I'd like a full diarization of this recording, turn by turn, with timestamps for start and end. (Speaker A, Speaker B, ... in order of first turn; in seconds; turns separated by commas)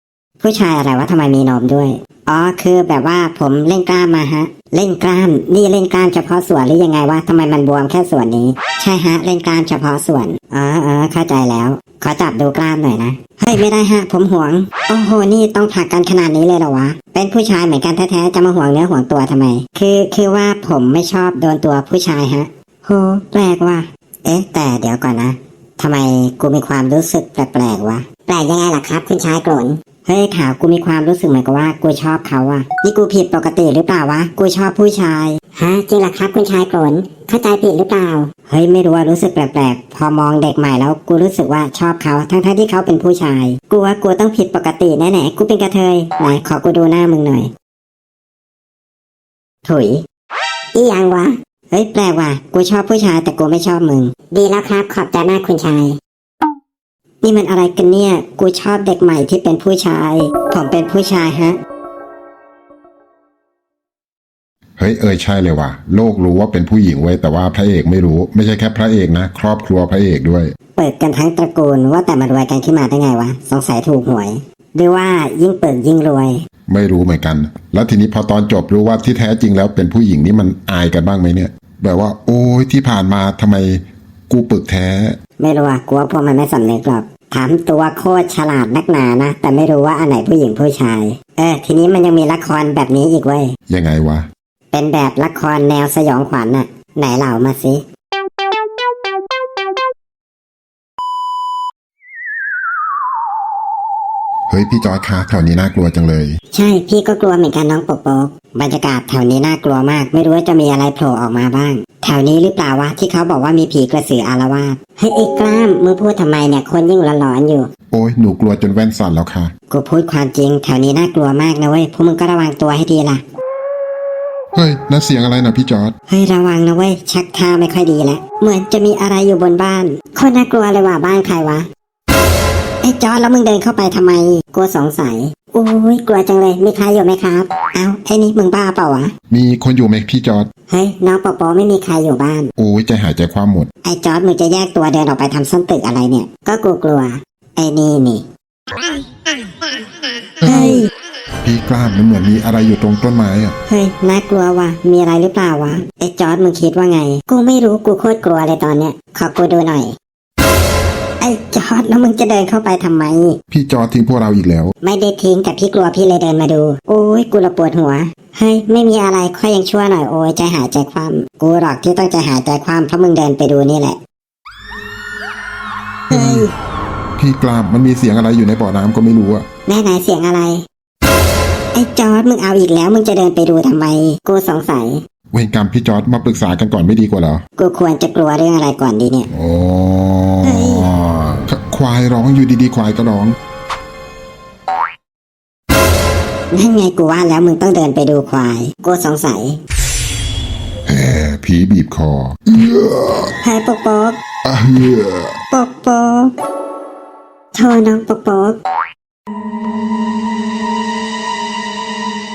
Speaker A: 0.4-47.5, Speaker A: 49.6-50.0, Speaker A: 50.7-56.0, Speaker A: 57.2-61.6, Speaker B: 64.8-70.5, Speaker A: 70.8-76.4, Speaker B: 76.7-85.2, Speaker A: 85.4-93.5, Speaker B: 93.7-94.3, Speaker A: 94.7-97.8, Speaker B: 104.5-106.4, Speaker A: 106.5-117.7, Speaker B: 117.9-119.5, Speaker A: 119.7-123.2, Speaker B: 124.5-125.9, Speaker A: 126.1-131.7, Speaker A: 132.8-139.1, Speaker B: 139.3-140.5, Speaker A: 140.7-142.5, Speaker B: 142.6-143.7, Speaker A: 143.8-148.2, Speaker B: 150.4-150.8, Speaker A: 150.4-150.9, Speaker B: 151.4-153.6, Speaker A: 153.7-159.9, Speaker A: 161.2-163.4, Speaker B: 163.5-164.7, Speaker A: 164.8-174.0, Speaker A: 176.1-176.5, Speaker B: 176.1-176.5, Speaker B: 177.2-179.5, Speaker A: 179.7-180.6, Speaker A: 181.7-185.0, Speaker B: 185.3-187.4, Speaker A: 187.6-189.3, Speaker B: 189.3-193.3, Speaker A: 190.4-190.8, Speaker A: 196.5-199.6, Speaker B: 200.8-203.3, Speaker A: 203.4-204.2, Speaker B: 204.4-205.3, Speaker A: 205.5-206.3, Speaker A: 207.5-208.6